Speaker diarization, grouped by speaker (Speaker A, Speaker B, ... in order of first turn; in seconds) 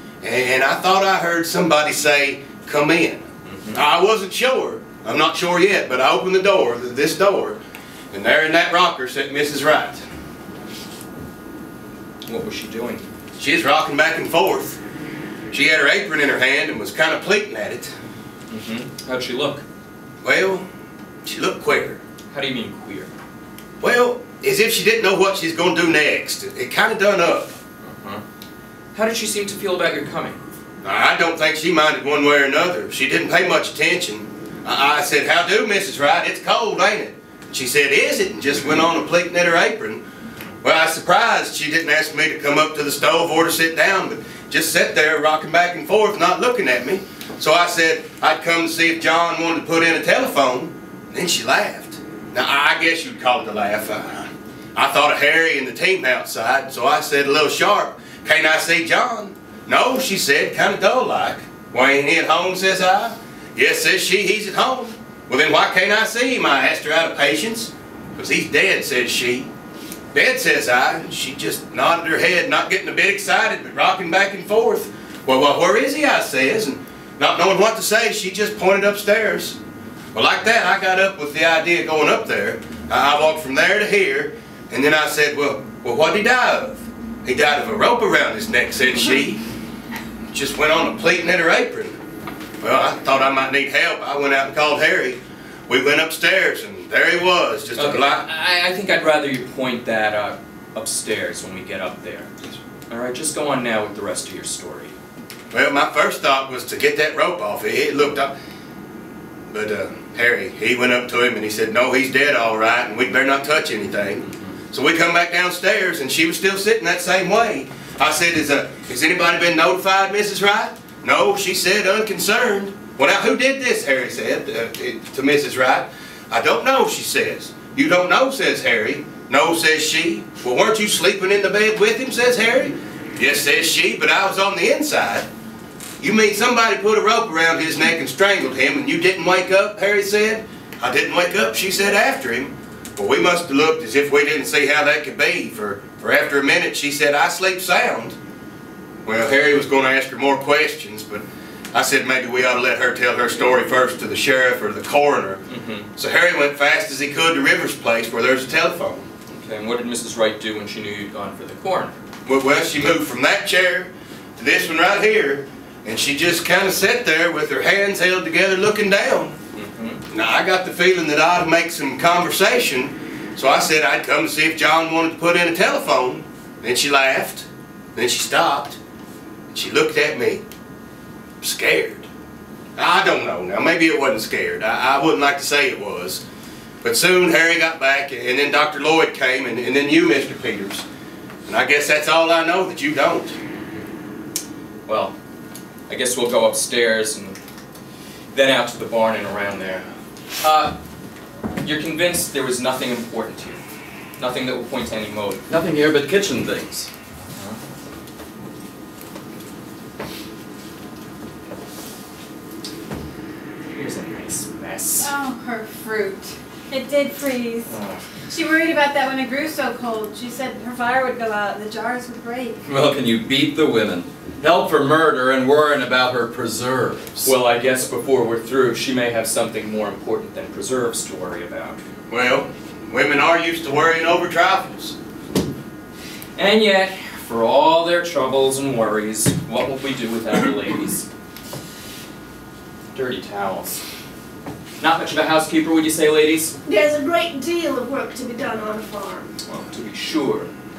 Speaker A: 0.2-7.6, 8.1-10.0, 13.4-14.8, 15.5-17.9, 20.2-20.6, 21.2-22.0, 23.8-27.6, 30.8-40.0, 40.6-69.5, 70.1-79.6, 80.1-89.4, 90.3-92.0, 92.6-98.2, 105.5-108.3, 109.5-135.3, 136.0-148.2, 149.1-155.4, 156.0-159.1, 162.3-169.4, 170.1-178.8, 179.5-180.4, 181.4-182.1, 182.8-186.2, 186.8-190.8, 191.5-193.4, 232.1-234.9
Speaker B: 3.5-3.8, 12.3-13.1, 18.5-19.6, 22.3-23.1, 27.8-28.2, 28.9-30.4, 97.8-102.3, 102.9-105.0, 155.5-155.9, 159.3-162.0, 169.5-170.0, 194.9-195.1, 195.9-197.4, 198.3-199.9, 200.4-200.8, 201.6-203.6, 204.2-205.4, 207.3-207.6, 213.8-215.1, 217.7-218.0, 227.2-231.8, 236.4-241.1, 242.9-243.8, 244.8-246.6, 249.4-250.5
Speaker C: 205.5-206.9, 222.7-227.3
Speaker D: 215.0-217.7, 218.3-222.6
Speaker E: 246.7-249.3